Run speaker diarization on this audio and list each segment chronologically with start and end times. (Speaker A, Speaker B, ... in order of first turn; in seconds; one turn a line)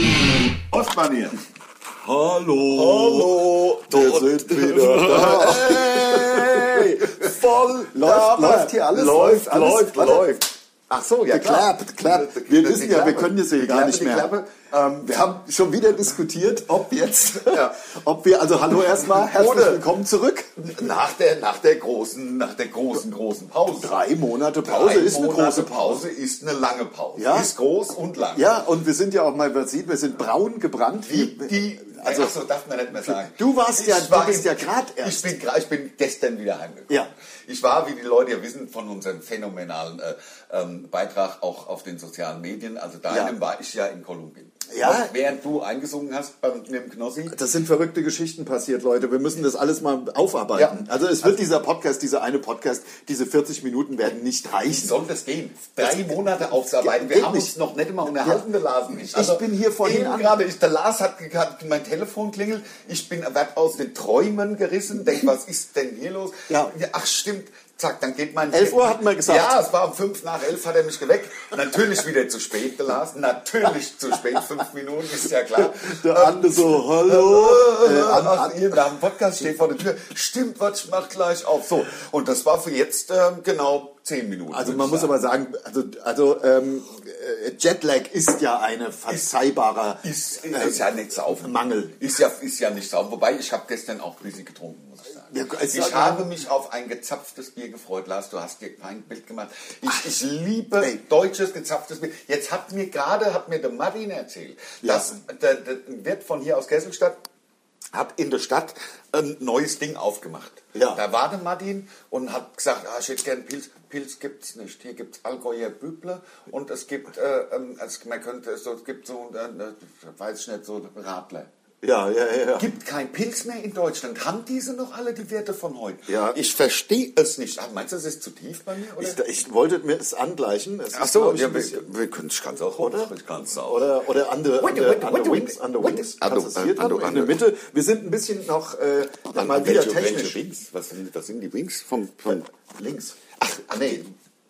Speaker A: 0.7-1.4
Speaker B: 2.0-10.4
Speaker A: 2.6-15.3
Speaker B: 11.3-14.3
Speaker B: 15.0-20.8
Speaker A: 17.4-17.8
Speaker A: 18.7-19.9
Speaker A: 20.6-23.9
Speaker B: 23.7-26.0
Speaker A: 24.6-28.4
Speaker B: 27.1-27.5
Speaker B: 28.3-32.3
Speaker A: 31.0-47.3
Speaker B: 32.9-35.3
Speaker B: 43.1-43.3
Speaker B: 44.7-45.1
Speaker B: 47.3-54.9
Speaker A: 50.5-51.4
Speaker A: 54.7-85.1
Speaker B: 55.8-57.5
Speaker B: 58.1-58.4
Speaker B: 59.0-60.3
Speaker B: 66.5-66.7
Speaker B: 68.5-69.5
Speaker B: 75.5-78.7
Speaker B: 84.5-92.1
Speaker A: 90.0-107.2
Speaker B: 95.3-96.3
Speaker B: 104.8-105.1
Speaker A: 107.9-121.5
Speaker B: 110.7-111.0
Speaker B: 121.8-122.7
Speaker A: 122.6-129.2
Speaker B: 126.1-126.4
Speaker B: 129.0-131.9
Speaker A: 130.9-133.8
Speaker B: 132.8-140.4
Speaker A: 134.6-137.4
Speaker A: 139.3-142.5
Speaker B: 142.3-144.1
Speaker A: 143.4-144.0